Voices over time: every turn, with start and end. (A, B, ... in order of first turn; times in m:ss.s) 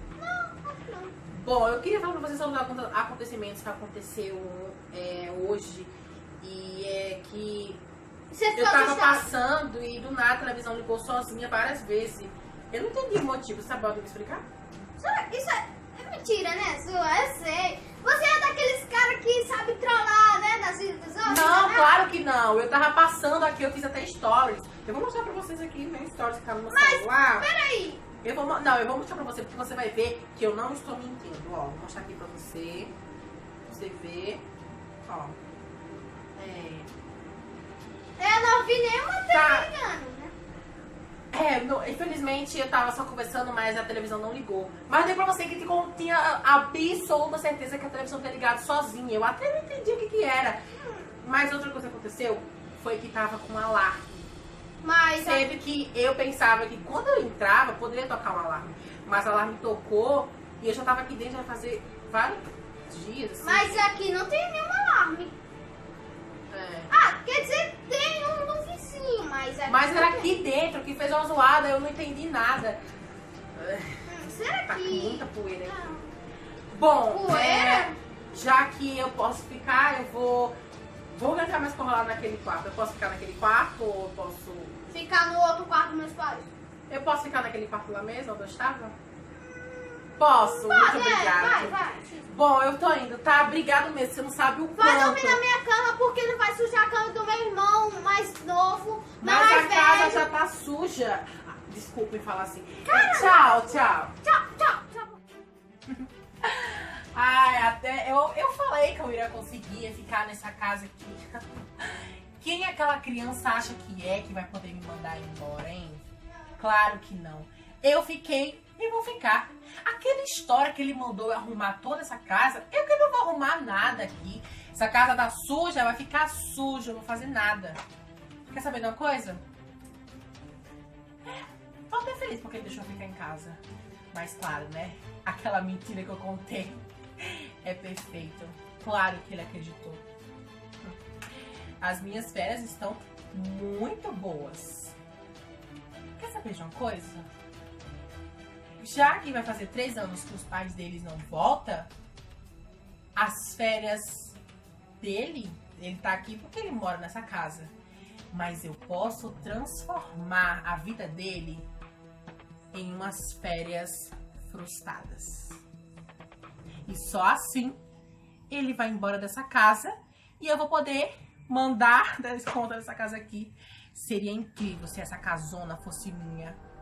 0:00.2-0:01.2 A
0:01.3-0:07.8 B
0:08.3-0:09.3 A
0:08.6-0:14.5 B
0:15.0-0:22.0 A
0:21.2-0:27.5 B
0:26.7-0:28.0 A
0:28.2-0:32.9 B
0:33.7-0:34.4 B
0:35.1-0:35.4 B
0:36.4-0:36.9 B
0:38.2-0:40.3 A
0:39.3-0:39.7 B
0:41.3-0:50.6 B
0:51.1-0:54.3 B
0:54.8-0:55.4 A
0:55.2-1:03.8 B
1:03.4-1:05.4 A
1:06.5-1:06.9 B
1:06.9-1:10.3 A
1:09.7-1:12.8 B
1:13.6-1:14.1 B
1:14.1-1:16.1 A
1:14.7-1:16.0 B
1:16.7-1:20.6 B
1:17.1-1:18.0 A
1:21.1-1:24.9 B
1:24.9-1:26.5 A
1:26.9-1:29.0 B
1:29.6-1:32.2 A
1:30.2-1:35.4 B
1:34.8-1:40.3 A
1:39.2-1:44.1 B
1:42.8-1:45.2 A
1:45.9-1:56.0 B
1:56.6-2:07.8 B
2:08.5-2:09.4 B
2:11.2-2:13.6 B
2:14.1-2:20.0 B
2:21.8-2:25.0 B
2:26.2-2:27.3 B
2:28.8-2:31.9 B
2:33.2-2:34.4 B
2:35.0-2:37.7 B
2:38.3-2:41.7 B
2:42.7-2:45.6 B
2:46.9-2:47.8 B
2:48.5-2:56.6 B